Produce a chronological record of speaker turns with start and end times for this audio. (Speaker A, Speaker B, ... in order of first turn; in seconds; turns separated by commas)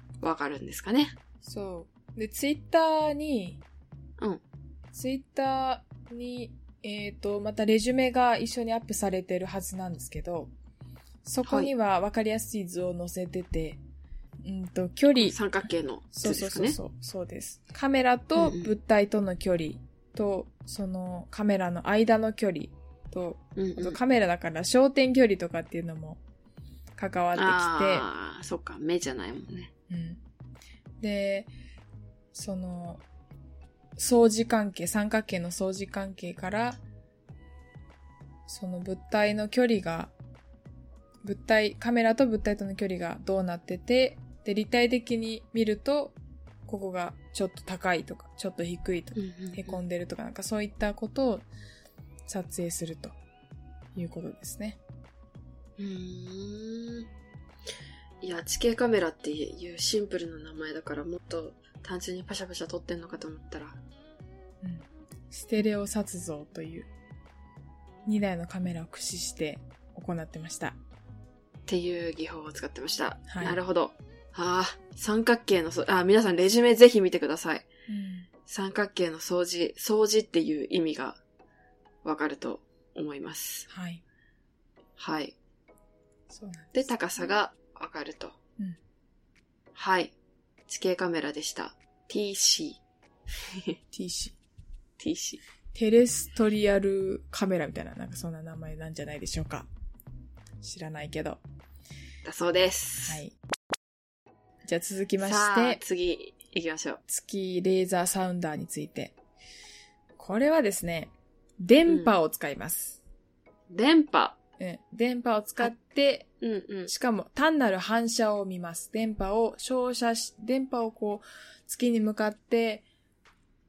Speaker A: 0.2-1.1, Speaker B: 1.4-3.6, Speaker B: 4.9-10.5, Speaker B: 11.2-13.8, Speaker A: 11.4-11.7, Speaker B: 14.4-15.4, Speaker A: 15.2-16.8, Speaker B: 16.1-26.2, Speaker A: 18.4-18.7, Speaker A: 23.6-24.0, Speaker B: 27.0-28.1, Speaker A: 27.3-29.7, Speaker B: 29.9-30.2, Speaker B: 31.0-31.5, Speaker B: 32.3-33.0, Speaker B: 34.0-36.8, Speaker B: 38.5-40.1, Speaker B: 41.2-46.1, Speaker B: 46.7-51.5, Speaker A: 49.1-49.8, Speaker B: 52.3-53.1, Speaker B: 53.9-54.8, Speaker A: 55.8-57.1, Speaker A: 58.2-63.8, Speaker B: 64.6-66.9, Speaker B: 68.0-70.8, Speaker A: 71.7-77.7, Speaker B: 73.3-73.6, Speaker B: 77.9-78.3, Speaker A: 78.5-81.2, Speaker A: 82.0-83.7, Speaker B: 83.7-84.0, Speaker A: 85.0-85.3, Speaker B: 86.3-86.9, Speaker A: 86.7-88.4, Speaker A: 89.7-90.1, Speaker A: 90.7-92.8, Speaker A: 93.5-93.8, Speaker B: 93.9-94.3, Speaker A: 95.0-95.4, Speaker B: 95.7-99.7, Speaker B: 100.6-101.4, Speaker A: 102.2-103.2, Speaker B: 103.0-103.3, Speaker B: 104.6-105.8, Speaker A: 105.2-107.0, Speaker B: 107.1-109.2, Speaker B: 110.2-113.0, Speaker A: 111.9-112.1, Speaker A: 113.7-114.4, Speaker B: 114.6-116.3, Speaker A: 116.4-116.9, Speaker B: 116.9-122.8